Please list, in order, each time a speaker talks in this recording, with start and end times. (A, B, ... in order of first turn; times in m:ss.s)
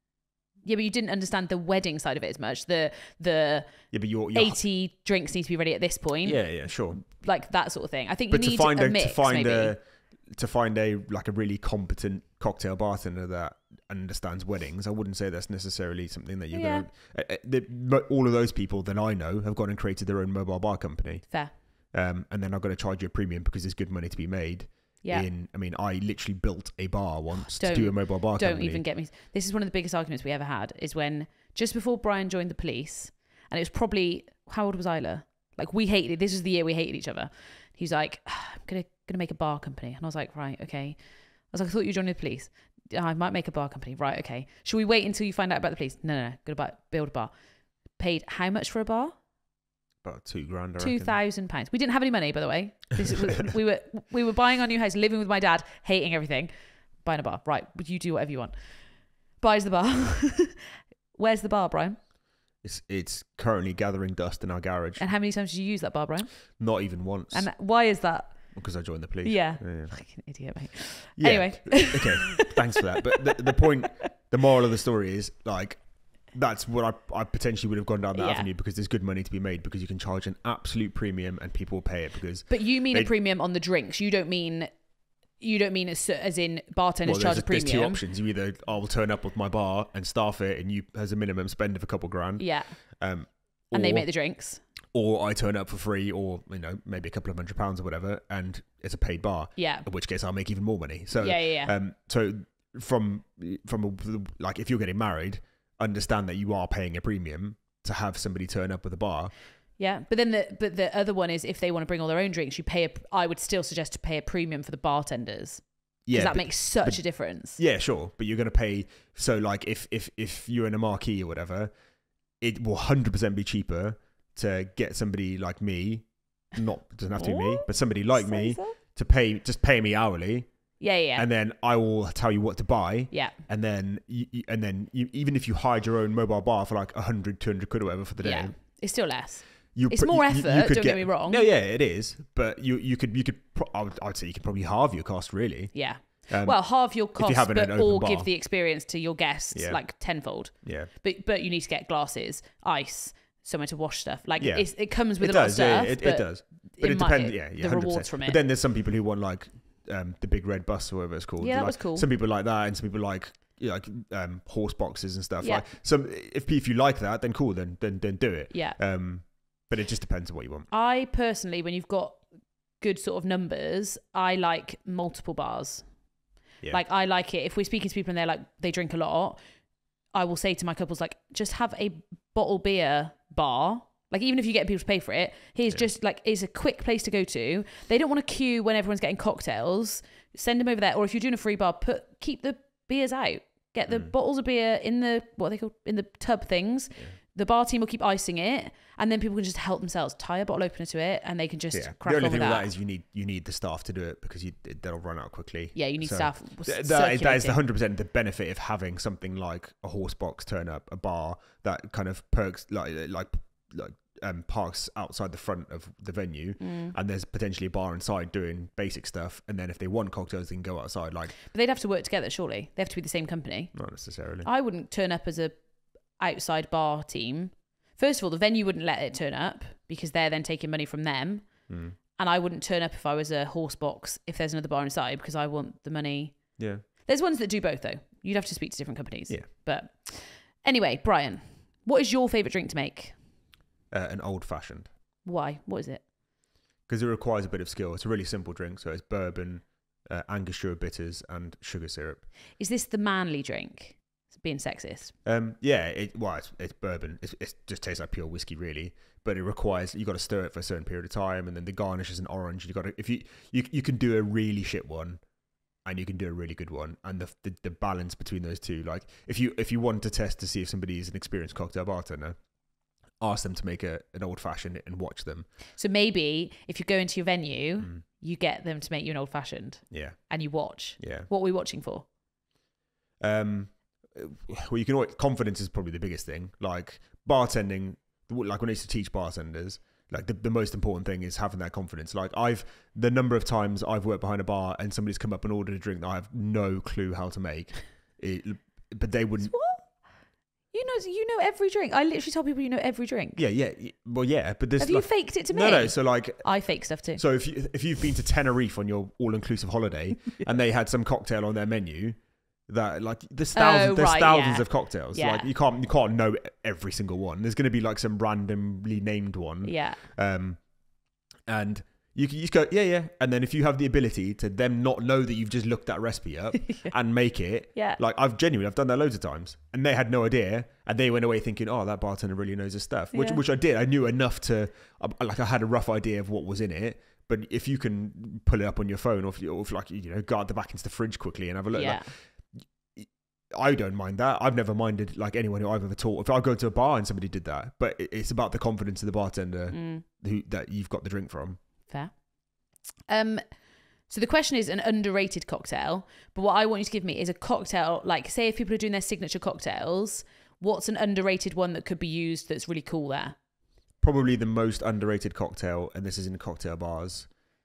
0:00.6-0:03.7 A
0:03.9-0:04.6 B
0:04.3-0:09.8 A
0:06.2-0:07.0 B
0:08.3-0:28.8 B
0:16.5-0:16.9 A
0:21.3-0:21.6 A
0:25.0-0:25.3 A
0:27.5-0:41.0 A
0:41.5-0:47.3 A
0:48.0-0:49.2 A
0:50.0-0:51.2 B
0:50.8-0:56.5 A
0:57.0-1:02.0 A
1:02.6-1:05.1 B
1:05.0-1:06.6 A
1:06.6-1:07.5 B
1:07.3-1:08.6 A
1:08.5-1:10.1 B
1:09.2-1:12.5 A
1:11.2-1:23.1 B
1:13.2-1:14.0 A
1:18.2-1:18.5 A
1:22.5-1:24.7 A
1:25.4-1:28.0 A
1:27.0-1:34.1 B
1:32.4-1:32.8 A
1:33.7-1:34.6 A
1:34.9-1:49.3 B
1:39.6-1:39.9 A
1:41.2-1:41.7 A
1:49.8-1:57.6 A
1:56.1-2:01.7 B
2:02.4-2:10.5 B
2:07.2-2:08.8 A
2:10.8-2:11.3 A
2:11.2-2:18.6 B
2:13.1-2:13.4 A
2:18.2-2:21.4 A
2:19.7-2:28.3 B
2:25.7-2:38.4 A
2:29.5-2:29.8 B
2:30.6-2:30.9 B
2:34.4-2:50.7 B
2:41.4-2:42.1 A
2:48.5-2:48.8 A
2:50.7-2:52.3 A
2:52.8-2:55.8 A
2:56.7-2:59.4 A
3:00.1-3:22.7 A
3:13.9-3:14.1 B
3:21.7-3:41.4 B
3:25.8-3:27.6 A
3:36.6-3:36.9 A
3:41.5-3:43.8 A
3:43.7-3:44.5 B
3:44.4-3:45.6 A
3:46.2-4:03.2 A
3:51.7-3:52.0 B
3:56.6-3:56.8 B
4:03.9-4:04.9 B
4:05.2-4:06.0 A
4:06.9-4:12.3 B
4:12.6-4:15.2 A
4:15.2-4:25.2 B
4:25.8-4:32.4 B
4:33.2-4:35.5 B
4:35.8-4:42.1 A
4:39.9-4:40.3 B
4:41.0-4:41.3 B
4:43.2-4:59.6 B
4:59.5-5:00.1 A
5:00.7-5:03.4 A
5:03.4-5:20.7 B
5:04.8-5:07.2 A
5:13.6-5:15.5 A
5:19.6-5:20.0 A
5:21.5-5:42.3 B
5:33.1-5:33.4 A
5:41.7-5:42.1 A
5:43.0-5:51.6 B
5:49.7-5:50.0 A
5:51.9-5:53.4 A
5:54.1-6:03.4 A
6:04.0-6:07.3 B